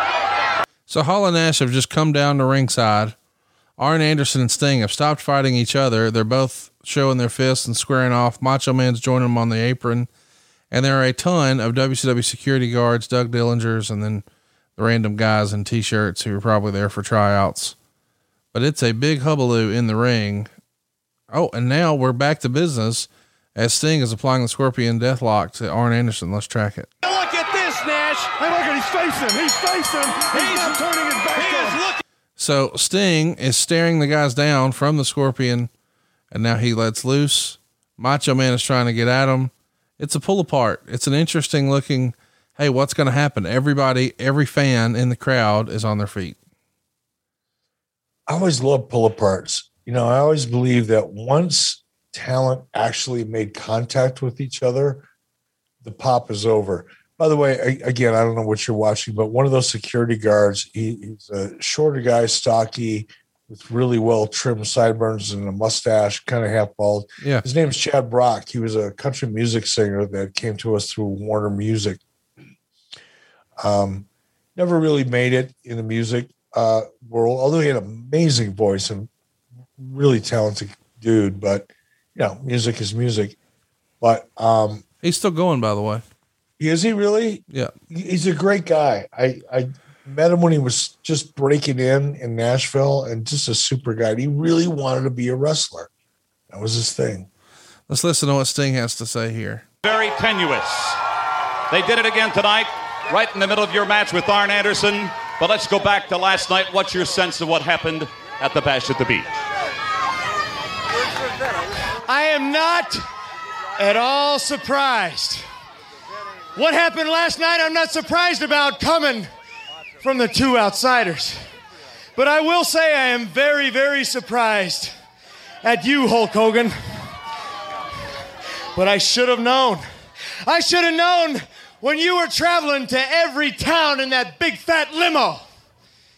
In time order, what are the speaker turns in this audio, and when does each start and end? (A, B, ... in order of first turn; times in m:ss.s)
0:00.9-0:03.2 A
0:03.8-0:10.1 A
0:10.7-0:14.2 A
0:14.8-0:17.8 A
0:18.5-0:20.5 A
0:21.3-0:26.9 A
0:27.0-0:28.6 B
0:30.2-0:32.0 B
0:32.4-0:35.7 A
0:36.3-0:46.4 A
0:48.3-0:55.0 C
0:55.8-1:12.0 C
1:13.6-1:19.1 C
1:19.8-1:23.4 C
1:24.0-1:24.8 C
1:25.0-1:26.0 A
1:26.6-1:35.9 C
1:36.5-1:37.3 C
1:37.9-1:39.6 A
1:39.8-1:41.0 D
1:41.7-1:49.3 D
1:52.0-1:53.0 E
1:53.8-1:55.4 E
1:56.5-1:59.3 E
2:00.0-2:01.4 E
2:02.2-2:04.9 E
2:05.6-2:06.8 E
2:08.7-2:09.8 E
2:10.4-2:15.4 E